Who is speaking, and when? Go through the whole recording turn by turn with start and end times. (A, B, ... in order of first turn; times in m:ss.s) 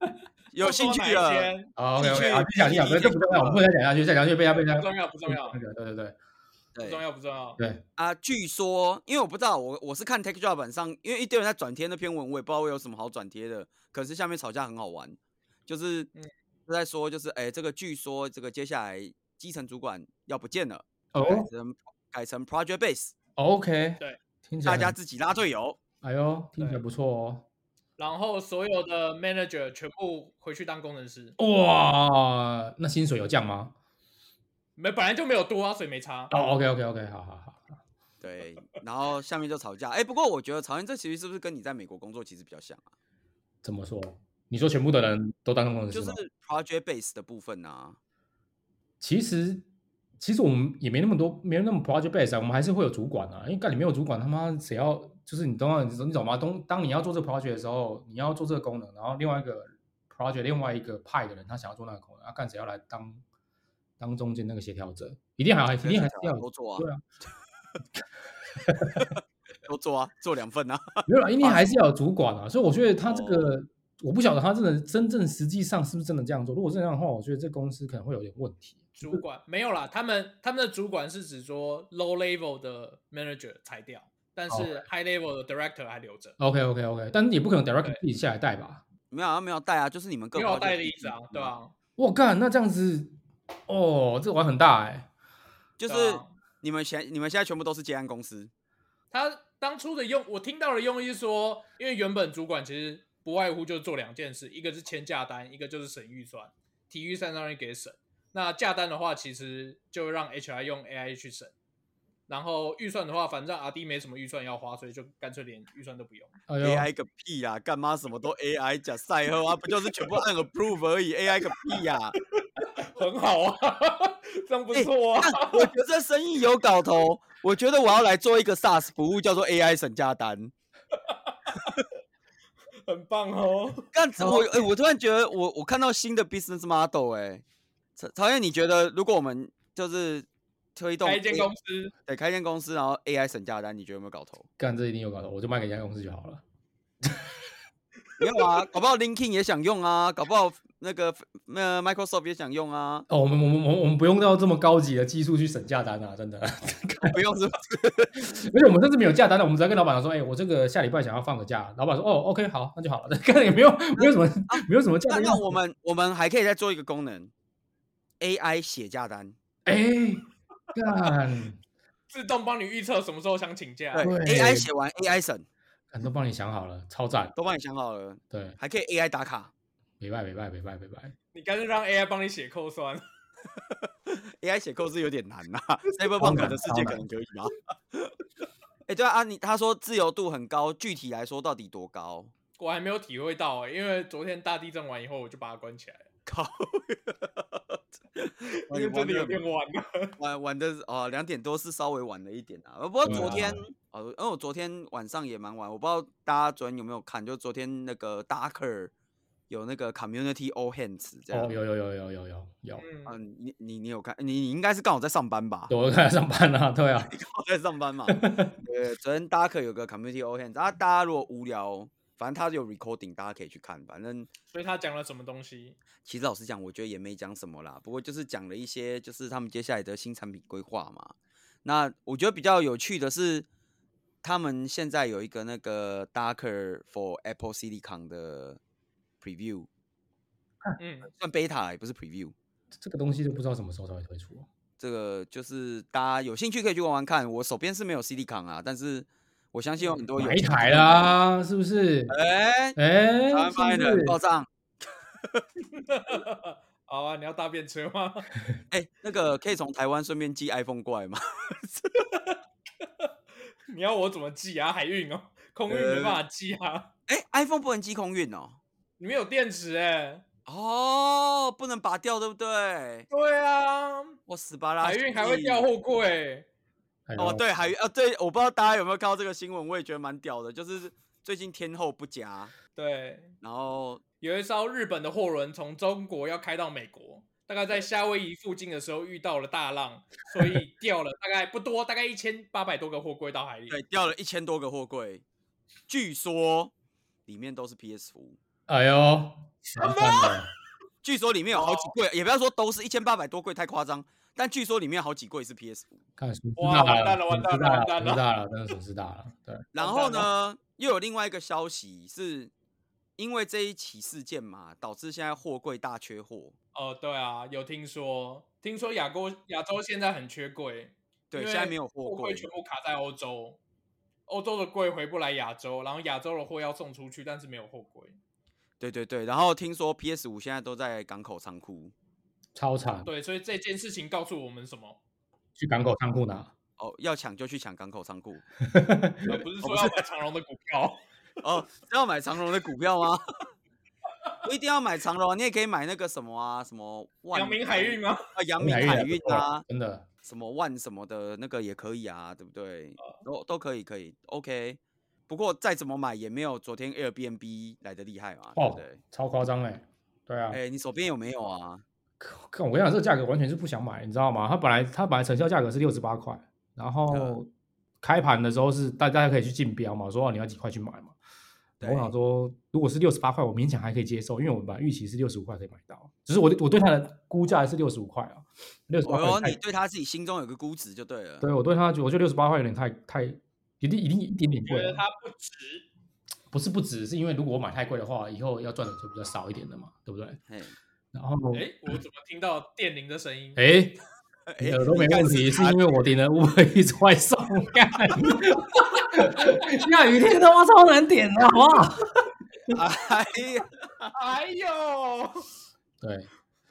0:00.5-0:01.5 A
0:00.6-0:03.6 B
0:01.8-0:06.2 C
0:04.7-0:05.6 B
0:06.7-0:07.0 A
0:06.8-0:07.6 B
0:07.6-0:07.8 C
0:08.0-0:16.1 A
0:16.7-0:23.1 A
0:21.1-0:21.5 C
0:23.4-0:24.9 C
0:24.6-0:25.8 A
0:26.0-0:27.4 C
0:28.0-0:31.4 B
0:31.4-0:33.7 C
0:34.8-0:36.3 B
0:36.3-0:37.8 C
0:38.2-0:42.9 A
0:43.6-0:46.2 C
0:45.9-0:48.0 A
0:49.0-0:49.6 C
0:50.2-1:03.2 C
1:04.0-1:07.0 C
1:05.8-1:06.9 A
1:08.6-1:09.1 C
1:09.0-1:11.7 A
1:11.1-1:19.2 C
1:13.0-1:13.6 A
1:19.0-1:26.4 B
1:24.5-1:24.8 C
1:26.4-1:28.8 C
1:29.1-1:31.6 A
1:30.3-1:31.7 B
1:32.0-1:33.1 C
1:33.7-1:35.1 C
1:35.8-1:38.5 A
1:35.9-1:36.3 B
1:39.1-1:51.5 B
1:52.3-1:56.3 B
1:56.5-1:56.9 C
1:56.6-2:02.2 A
2:02.4-2:05.7 B
2:04.7-2:10.5 A
2:10.9-2:11.8 B
2:12.8-2:14.6 B
2:13.9-2:17.4 A
2:18.0-2:21.5 A
2:21.0-2:21.9 B
2:22.1-2:24.5 A
2:24.6-2:26.4 C
2:28.2-2:33.1 A
2:33.1-2:37.2 C
2:37.0-2:38.3 A
2:38.2-2:45.6 C
2:43.9-2:47.3 A
2:48.2-2:49.4 A
2:49.6-2:51.6 C
2:52.1-2:54.1 B
2:53.9-2:55.4 A
2:54.0-2:54.7 C
2:55.9-2:57.3 C
2:57.3-2:59.5 A
2:58.3-2:58.6 C
3:00.0-3:01.1 C
3:01.3-3:03.0 B
3:03.7-3:08.1 A
3:06.2-3:07.0 C
3:08.9-3:12.3 A
3:12.6-3:16.0 B
3:16.2-3:19.4 A
3:18.5-3:20.1 B
3:20.2-3:28.9 A
3:23.0-3:23.6 C
3:23.1-3:23.4 B
3:29.5-3:31.5 A
3:31.3-3:32.8 C
3:32.8-3:33.1 B
3:33.1-3:35.7 A
3:35.7-3:37.1 C
3:37.1-3:44.3 A
3:38.1-3:38.6 C
3:44.5-3:45.8 B
3:46.0-3:51.1 A
3:51.6-3:53.5 A
3:54.2-3:58.6 A
3:59.2-3:59.7 A
4:00.8-4:01.1 B
4:01.1-4:02.3 A
4:02.8-4:04.5 C
4:04.8-4:11.1 A
4:09.8-4:10.1 B
4:10.2-4:12.1 C
4:12.1-4:12.8 A
4:12.8-4:14.2 C
4:13.3-4:14.5 A
4:15.8-4:18.3 B
4:18.7-4:22.0 A
4:22.0-4:23.1 B
4:23.7-4:26.9 B
4:25.7-4:26.2 A
4:27.1-4:28.6 A
4:29.0-4:30.2 B
4:30.4-4:33.1 A
4:33.1-4:34.2 B
4:34.3-4:35.7 A
4:34.8-4:36.5 B
4:37.1-4:37.4 C
4:37.2-4:42.5 A
4:42.8-4:43.3 B
4:43.4-4:44.0 A
4:44.2-4:53.8 B
4:53.7-4:55.2 A
4:55.9-4:56.7 A
4:57.3-4:58.4 A
4:58.7-5:00.5 C
4:59.6-5:00.4 B
5:01.0-5:06.0 A
5:01.5-5:01.9 B
5:06.2-5:09.6 C
5:06.6-5:08.2 B
5:09.7-5:12.5 A
5:09.8-5:10.3 B
5:13.2-5:16.5 A
5:16.7-5:23.6 B
5:21.3-5:22.5 A
5:24.3-5:28.2 B
5:28.8-5:31.9 A
5:32.6-5:33.1 C
5:33.0-5:35.0 B
5:35.6-5:36.5 C
5:36.8-5:38.4 A
5:38.6-5:39.4 C
5:39.2-5:41.0 B
5:39.6-5:39.9 A
5:41.4-5:43.2 A
5:44.4-5:49.6 A
5:47.3-5:48.2 B
5:48.6-5:50.0 C
5:50.2-5:59.0 A
5:58.6-6:00.6 C
6:00.5-6:01.8 A
6:02.2-6:07.5 C
6:07.1-6:07.4 A
6:08.0-6:11.2 C
6:11.8-6:12.1 A
6:11.8-6:19.6 C
6:19.0-6:21.5 A
6:21.4-6:25.0 C
6:24.6-6:25.8 B
6:26.5-6:30.4 C
6:30.5-6:30.8 A
6:31.1-6:31.7 C
6:31.5-6:33.6 B
6:33.6-6:34.0 C
6:34.5-6:35.9 A
6:34.6-6:42.1 C
6:42.7-6:44.2 A
6:44.1-6:45.4 B
6:46.0-6:46.3 C